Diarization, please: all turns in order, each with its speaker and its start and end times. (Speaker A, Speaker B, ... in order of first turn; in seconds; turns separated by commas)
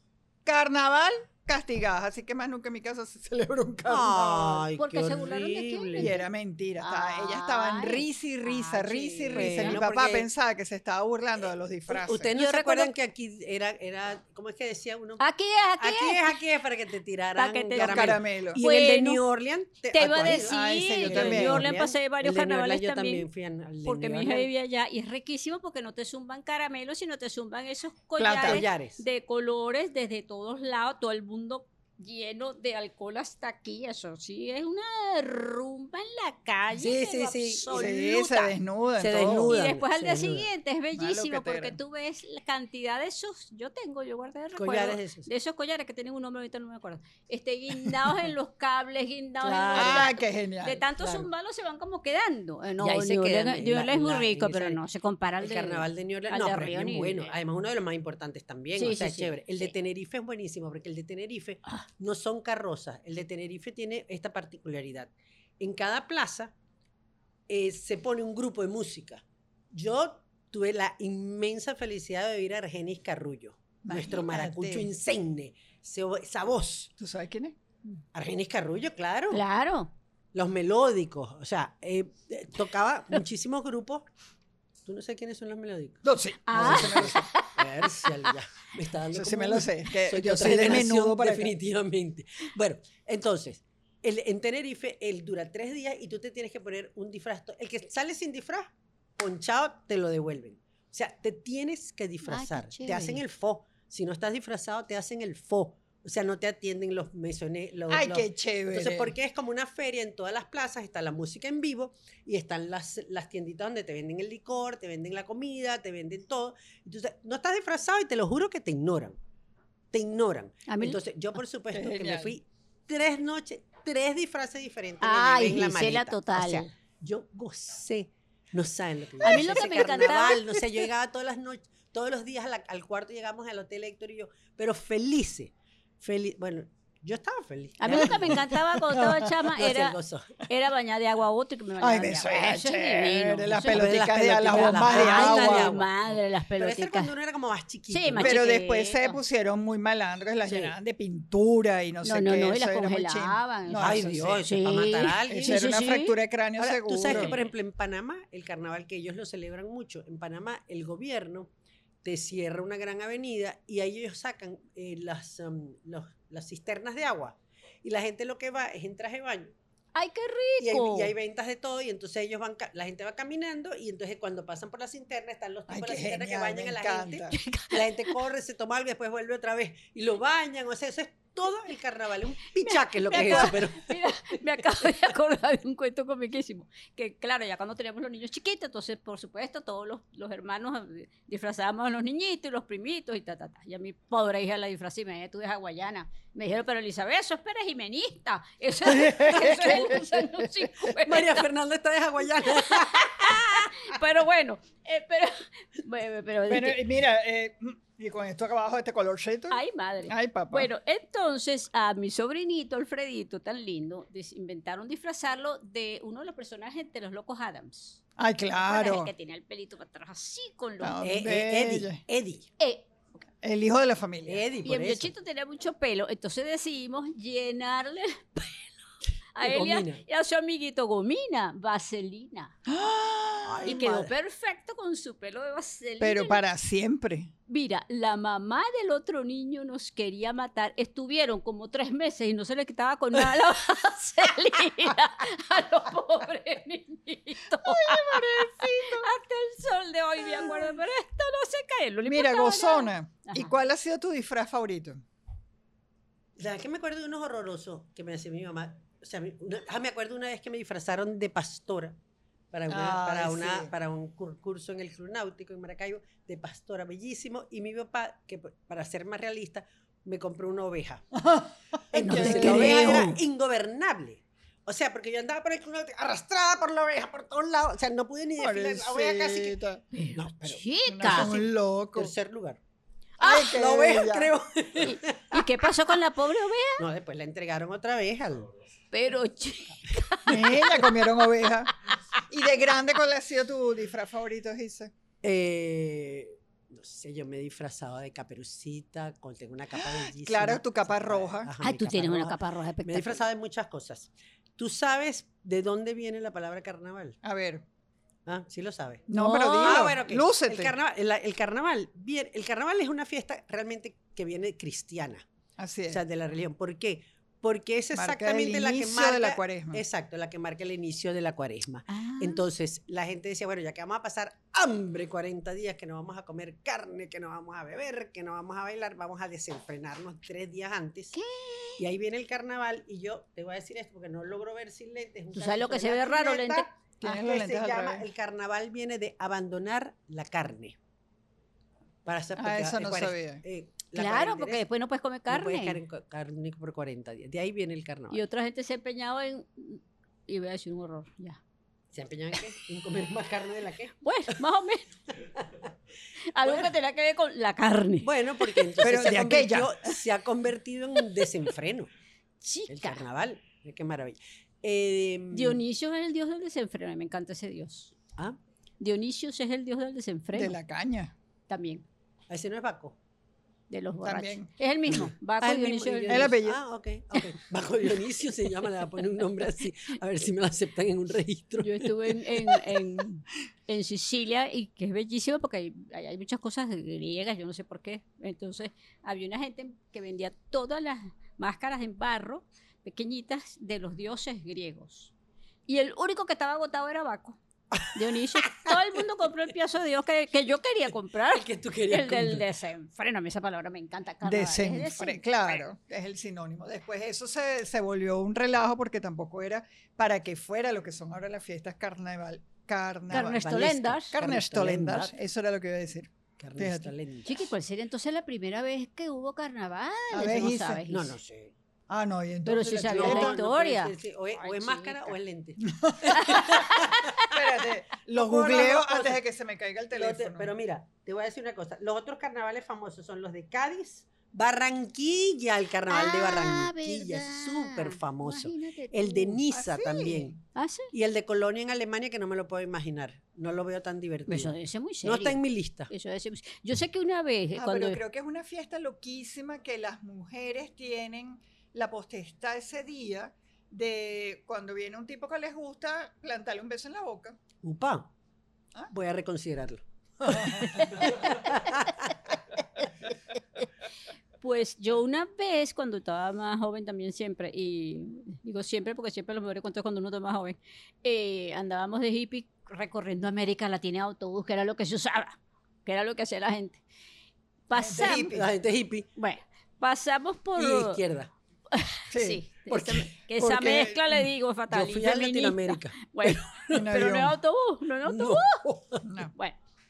Speaker A: 0.4-4.7, Speaker B: 3.9-6.1, Speaker C: 4.8-6.3, Speaker A: 6.0-12.3, Speaker C: 6.8-9.8, Speaker B: 9.3-10.3, Speaker B: 11.9-15.2, Speaker C: 12.3-12.9, Speaker C: 15.2-16.3, Speaker B: 15.8-24.5, Speaker C: 17.4-19.2, Speaker A: 17.8-18.6, Speaker C: 19.9-23.3, Speaker A: 20.5-21.6, Speaker C: 23.8-38.5, Speaker A: 28.2-28.6, Speaker B: 28.4-29.0, Speaker B: 36.7-37.9, Speaker A: 37.7-39.5, Speaker B: 39.0-40.5, Speaker C: 39.2-57.3, Speaker A: 40.9-41.8, Speaker B: 44.5-45.3, Speaker B: 49.4-50.1, Speaker A: 49.7-50.8, Speaker B: 51.0-51.3, Speaker B: 52.8-54.8, Speaker B: 55.4-66.5, Speaker C: 58.8-59.7, Speaker B: 67.5-76.9, Speaker A: 73.8-74.9, Speaker A: 77.0-77.6, Speaker B: 78.1-79.4, Speaker C: 79.3-79.9, Speaker B: 80.3-84.1, Speaker B: 84.8-119.2, Speaker A: 86.0-87.3, Speaker C: 86.5-88.3, Speaker A: 89.1-91.5, Speaker C: 102.2-103.2, Speaker A: 107.9-109.1, Speaker B: 119.9-140.4, Speaker C: 120.7-121.0, Speaker A: 121.7-122.3, Speaker C: 125.0-126.7, Speaker C: 129.2-130.9, Speaker C: 137.8-147.1, Speaker A: 137.9-139.2, Speaker A: 141.8-145.8, Speaker B: 143.7-145.9, Speaker B: 146.6-148.4, Speaker C: 147.9-149.2, Speaker A: 148.2-154.4, Speaker B: 150.4-150.7, Speaker C: 152.0-156.1, Speaker B: 153.8-155.7, Speaker A: 155.3-157.3, Speaker B: 156.6-161.5, Speaker C: 157.0-157.5, Speaker B: 162.0-169.5, Speaker C: 169.9-171.1, Speaker B: 170.6-184.9, Speaker A: 175.7-177.3, Speaker C: 177.3-178.2, Speaker C: 182.6-201.4, Speaker A: 198.9-200.4, Speaker B: 199.1-199.9, Speaker B: 200.9-204.0, Speaker C: 202.4-206.8, Speaker A: 206.5-210.7, Speaker C: 209.5-218.0, Speaker A: 218.2-219.1, Speaker C: 218.7-221.0, Speaker A: 220.8-222.0, Speaker B: 221.0-222.5, Speaker C: 222.6-222.9, Speaker A: 223.4-224.4, Speaker B: 224.3-225.1, Speaker C: 224.6-228.7, Speaker C: 229.3-232.6, Speaker B: 229.4-230.0, Speaker A: 232.7-233.7, Speaker B: 233.4-234.1, Speaker C: 233.6-236.4, Speaker A: 236.0-237.3, Speaker C: 237.5-253.5, Speaker A: 247.6-249.1, Speaker A: 250.2-250.7, Speaker A: 252.1-255.0, Speaker B: 256.4-262.0, Speaker B: 262.5-271.1, Speaker A: 262.7-263.7, Speaker A: 271.1-273.1, Speaker B: 271.9-279.6, Speaker C: 271.9-273.2, Speaker A: 278.4-279.8, Speaker C: 279.9-281.4, Speaker B: 280.1-282.6, Speaker A: 280.9-282.1, Speaker A: 283.2-284.3, Speaker C: 283.2-283.6, Speaker B: 283.2-285.9, Speaker C: 284.8-286.8, Speaker B: 286.8-288.5, Speaker C: 288.9-290.9, Speaker B: 289.9-290.6, Speaker A: 290.3-291.7, Speaker A: 292.3-294.9, Speaker B: 295.2-307.2, Speaker A: 299.8-301.5, Speaker C: 301.6-303.2, Speaker A: 307.2-307.6, Speaker B: 308.2-315.2, Speaker A: 309.1-310.7, Speaker C: 309.1-309.9, Speaker A: 315.6-316.0, Speaker B: 315.9-331.1, Speaker A: 317.9-319.8, Speaker A: 321.9-322.4, Speaker C: 331.1-331.8, Speaker B: 331.8-340.8, Speaker C: 335.3-336.6, Speaker A: 337.0-338.0, Speaker B: 342.0-344.6, Speaker A: 342.4-343.4, Speaker C: 343.9-345.8, Speaker B: 345.3-348.2, Speaker C: 348.1-351.4, Speaker B: 351.9-354.0, Speaker C: 354.0-354.9, Speaker B: 355.2-355.7, Speaker C: 356.3-358.7, Speaker B: 356.4-356.7, Speaker B: 358.0-361.9, Speaker A: 358.8-360.0, Speaker C: 362.4-363.0, Speaker B: 362.7-365.6, Speaker C: 365.3-368.0, Speaker C: 368.8-370.5, Speaker A: 370.3-371.1, Speaker C: 371.5-371.8, Speaker B: 372.3-373.0, Speaker C: 373.7-376.3, Speaker A: 374.0-374.5, Speaker B: 374.9-382.8, Speaker A: 376.1-376.6, Speaker C: 381.6-395.1, Speaker C: 395.7-397.4, Speaker B: 397.7-398.8, Speaker C: 397.9-405.6, Speaker B: 401.3-402.4, Speaker A: 404.2-413.4, Speaker C: 413.1-414.1, Speaker B: 413.1-415.1, Speaker A: 414.1-416.9, Speaker B: 416.4-417.4, Speaker C: 417.2-421.1, Speaker A: 420.1-420.8, Speaker B: 420.9-421.5, Speaker A: 421.9-423.4, Speaker C: 422.4-425.1, Speaker B: 422.9-427.3, Speaker A: 425.7-426.5, Speaker C: 426.1-427.2, Speaker A: 427.3-430.5, Speaker B: 428.1-429.2, Speaker B: 429.9-440.3, Speaker C: 435.9-439.4, Speaker A: 439.5-440.4, Speaker C: 440.6-440.9, Speaker B: 440.9-445.9, Speaker C: 444.3-448.0, Speaker A: 447.6-457.4, Speaker B: 457.6-458.1, Speaker B: 458.9-462.4, Speaker A: 460.4-460.7, Speaker C: 464.4-476.8, Speaker C: 477.7-478.4, Speaker A: 477.8-478.4, Speaker B: 478.0-479.1, Speaker C: 479.2-481.0, Speaker B: 480.6-481.3, Speaker C: 481.7-488.6, Speaker A: 482.1-482.4, Speaker B: 482.7-483.9, Speaker A: 483.5-484.2, Speaker B: 484.7-486.9, Speaker A: 486.7-487.4, Speaker B: 488.0-489.0, Speaker A: 489.0-489.3